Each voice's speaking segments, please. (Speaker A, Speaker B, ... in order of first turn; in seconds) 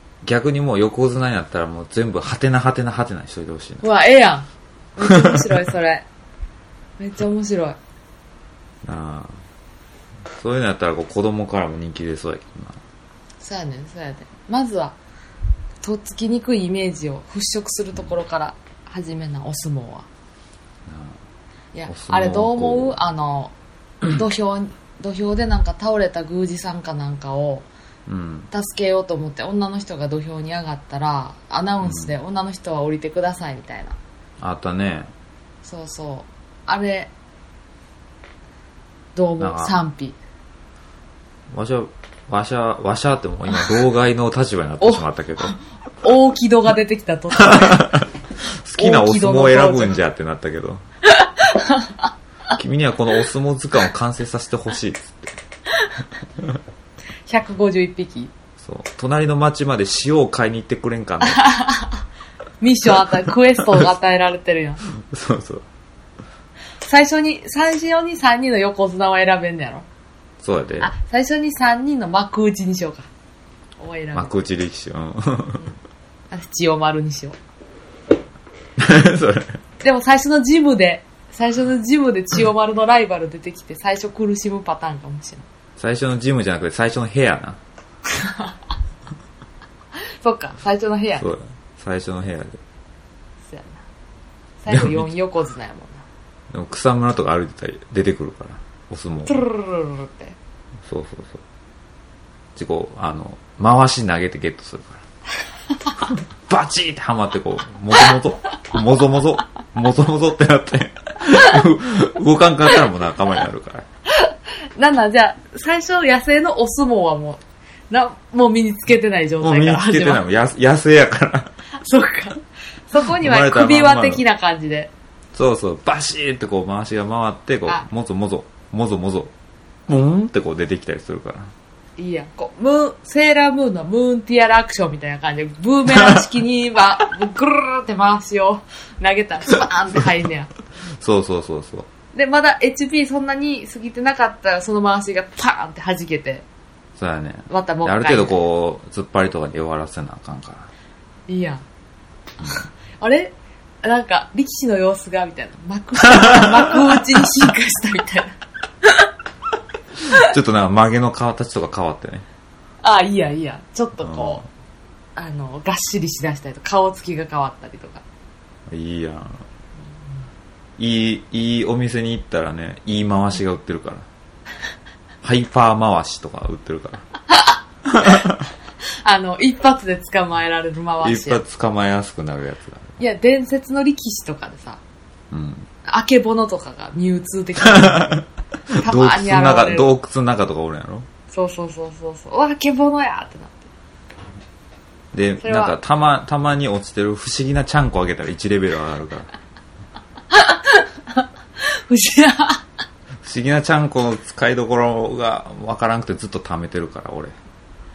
Speaker A: 0.2-3.8, 5.0-5.6, 8.8-9.4, 10.3-12.8, 20.9-21.2, 21.9-23.0, 28.1-28.5, 31.8-32.1, 34.4-35.1, 39.4-39.8, 41.5-45.6, 47.4-50.8, 52.5-55.4, 58.6-61.4, 65.0-65.7, 70.4-70.9, 74.1-75.7, 78.8-79.6, 85.8-87.6, 91.2-92.6, 94.7-95.1, 96.5-99.4, 100.9-101.4, 102.6-105.0, 106.1-113.9, 119.4-121.5, 123.0-124.2, 125.3-129.3, 129.9-131.5, 135.9-136.2, 141.0-141.9, 147.0-150.7, 156.0-156.9, 160.0-162.3, 164.0-164.5, 168.7-169.4, 170.8-174.1, 175.2-177.1, 177.9-178.5, 181.0-183.0, 185.3-185.7, 187.6-191.1, 195.1-199.3, 203.2-207.4
Speaker B: 3.8-6.1, 7.0-7.8, 13.4-15.0, 15.8-20.1, 21.7-23.5, 24.1-27.7, 28.5-34.0, 35.6-37.1, 39.1-40.2, 44.8-47.9, 48.8-50.0, 51.1-52.1, 55.7-56.0, 57.3-58.3, 61.2-62.0, 62.6-64.8, 66.8-69.9, 70.8-73.1, 73.8-74.3, 76.3-77.4, 79.8-85.5, 88.1-88.6, 90.2-91.3, 93.5-93.8, 94.6-96.0, 99.3-100.4, 114.1-120.2, 121.8-124.9, 132.0-140.5, 142.1-146.4, 147.5-148.3, 151.3-151.6, 152.5-159.1, 162.8-164.4, 165.2-168.0, 177.3-178.2, 179.0-181.4, 183.0-184.8, 185.8-188.2, 188.8-189.9, 191.3-193.7, 195.4-195.8, 200.3-202.7